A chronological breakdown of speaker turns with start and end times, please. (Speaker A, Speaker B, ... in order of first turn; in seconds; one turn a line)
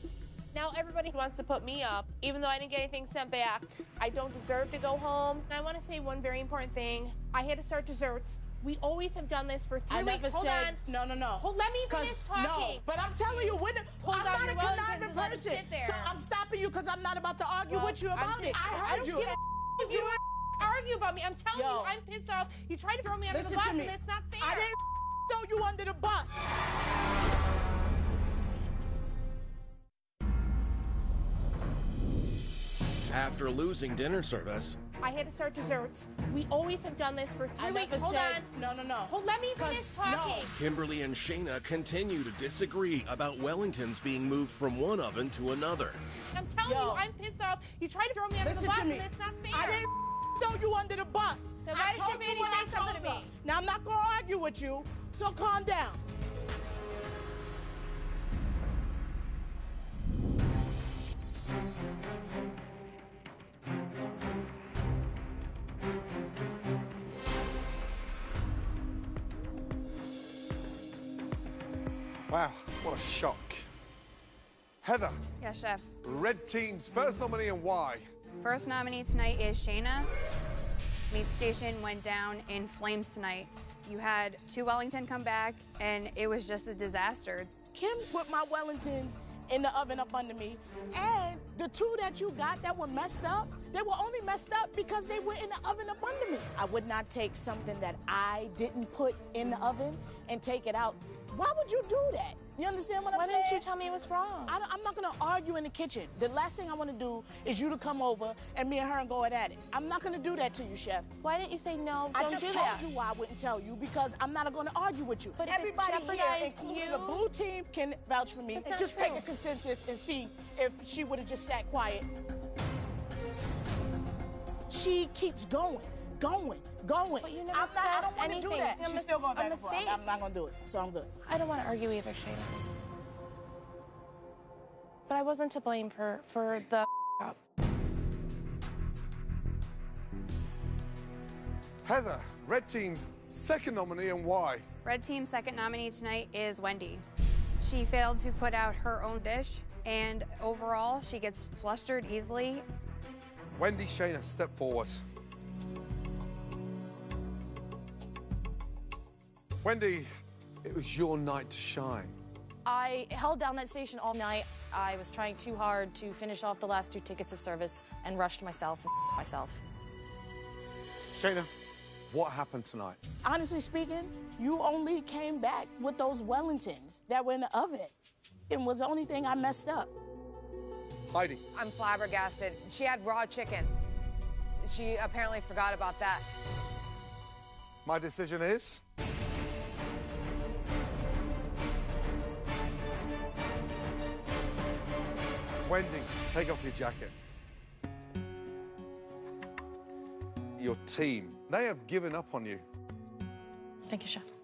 Speaker A: 0.5-10.8
Speaker B: 9.9-20.0
Speaker A: 11.4-16.2
Speaker A: 17.7-24.7
Speaker B: 21.5-21.9
Speaker B: 23.3-24.8
Speaker B: 25.3-26.4
Speaker C: 33.1-34.8
Speaker A: 35.0-38.5
Speaker B: 37.6-40.5
Speaker A: 39.0-40.5
Speaker C: 40.5-46.0
Speaker A: 46.4-49.9
Speaker B: 46.6-47.0
Speaker B: 48.4-56.0
Speaker A: 51.6-53.3
Speaker D: 72.3-73.7
Speaker D: 74.8-75.2
Speaker E: 75.4-75.9
Speaker D: 76.0-78.1
Speaker E: 78.4-80.1
Speaker E: 81.1-87.5
Speaker B: 87.7-103.7
Speaker A: 103.1-104.5
Speaker B: 104.5-111.1
Speaker A: 111.2-112.9
Speaker B: 112.1-122.1
Speaker A: 115.4-117.3
Speaker A: 118.5-119.2
Speaker B: 124.7-131.2
Speaker A: 127.2-130.0
Speaker A: 131.2-132.6
Speaker A: 135.1-137.3
Speaker D: 141.8-144.7
Speaker E: 144.8-147.0
Speaker E: 147.6-152.6
Speaker D: 153.6-155.0
Speaker D: 159.6-160.1
Speaker D: 160.6-162.2
Speaker F: 162.6-169.6
Speaker D: 171.1-171.5
Speaker D: 172.1-173.0
Speaker B: 173.2-177.9
Speaker B: 178.5-179.9
Speaker D: 181.1-181.4
Speaker G: 181.5-183.7
Speaker G: 184.6-186.2
Speaker D: 187.8-188.8
Speaker D: 195.6-197.1
Speaker D: 200.6-202.6
Speaker F: 203.9-204.2